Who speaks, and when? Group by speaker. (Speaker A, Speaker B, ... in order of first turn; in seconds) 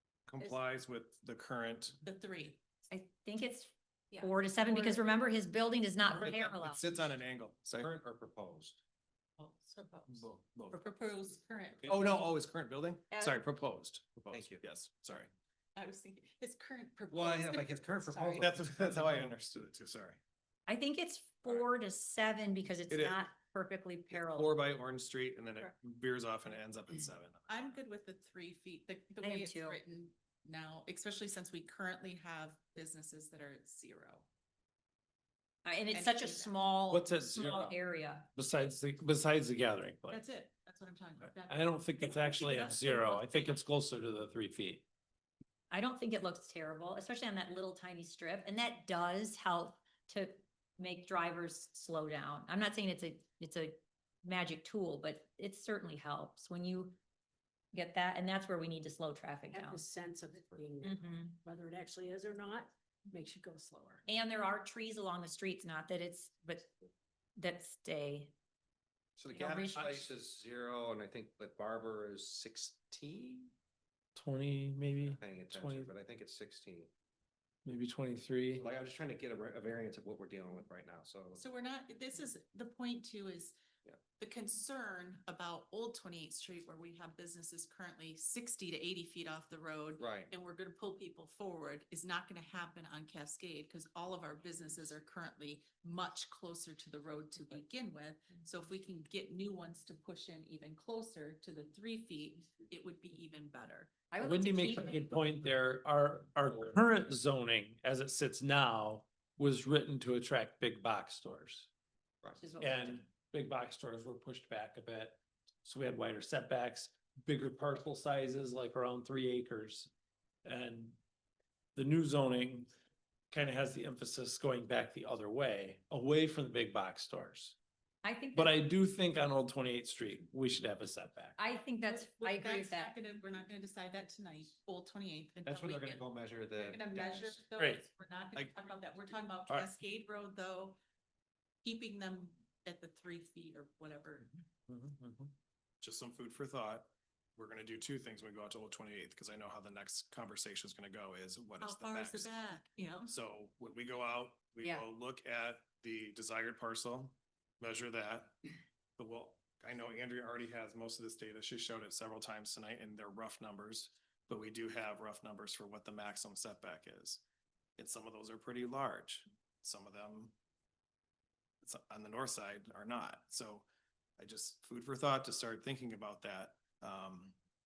Speaker A: 0.3-2.0, 6.1-7.9, 10.1-10.8, 11.8-15.3, 18.4-20.2, 22.9-23.2, 24.1-27.7, 138.3-138.6, 145.8-152.5, 153.0-158.4, 159.0-167.2, 167.8-170.3, 171.6-173.7, 174.2-177.3
Speaker B: 2.0-2.6, 9.4-12.2, 15.8-18.5, 27.5-34.3, 35.9-36.5, 40.1-43.5, 81.3-83.5, 84.2-103.9, 131.8-136.0, 136.5-140.8, 141.6-144.3, 151.6-153.1
Speaker C: 2.9-6.8, 20.7-24.5, 29.2-29.8, 35.6-38.3, 42.5-43.3, 45.7-57.0, 57.7-59.9, 60.8-61.4, 64.0-66.7, 67.4-68.3, 69.3-70.1, 104.1-105.1, 112.4-113.0, 128.0-128.6, 131.4-132.9
Speaker D: 7.7-8.8, 14.3-14.6, 17.1-18.6, 69.2-73.5, 75.0-76.9, 78.6-81.4, 90.0-90.3, 135.4-137.4
Speaker E: 36.9-37.8, 38.3-40.2, 41.2-44.8, 74.1-75.9, 77.7-78.7, 104.2-111.7, 112.6-119.9, 120.4-121.0, 121.7-122.7, 123.3-127.5, 128.3-131.3, 137.6-137.8, 144.7-145.3
Speaker F: 59.6-64.0